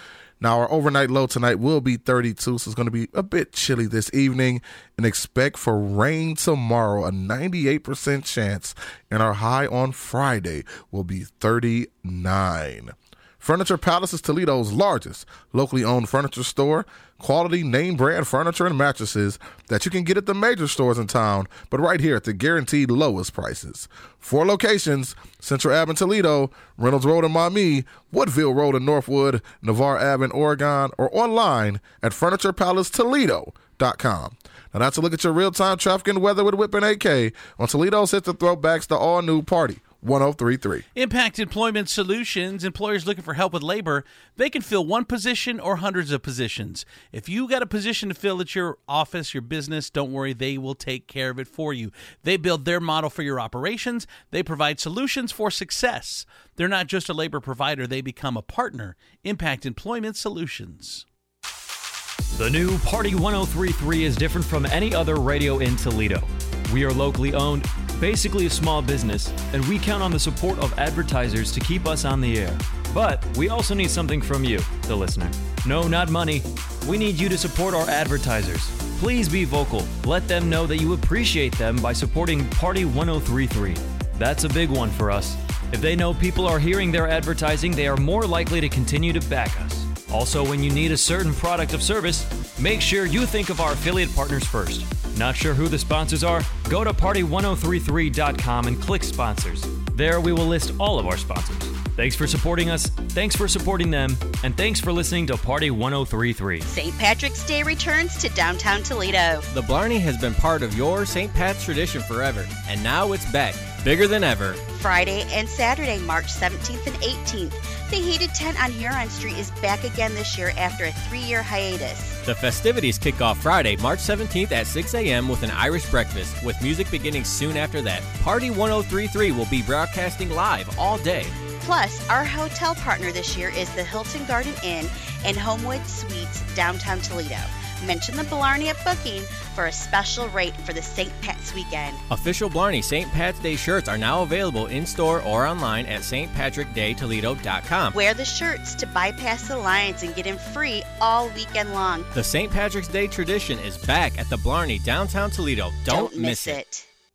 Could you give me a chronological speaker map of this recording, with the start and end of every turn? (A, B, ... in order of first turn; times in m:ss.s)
0:00.4-0:40.8 A
0:41.0-1:01.0 B
1:02.3-1:46.6 C
1:46.7-1:49.4 D
1:49.5-1:54.6 E
1:54.7-2:02.2 D
2:02.2-2:11.3 E
2:11.6-2:22.0 D
2:22.1-2:28.0 E
2:27.9-2:32.1 D
2:32.1-2:36.6 E
2:35.9-2:36.9 D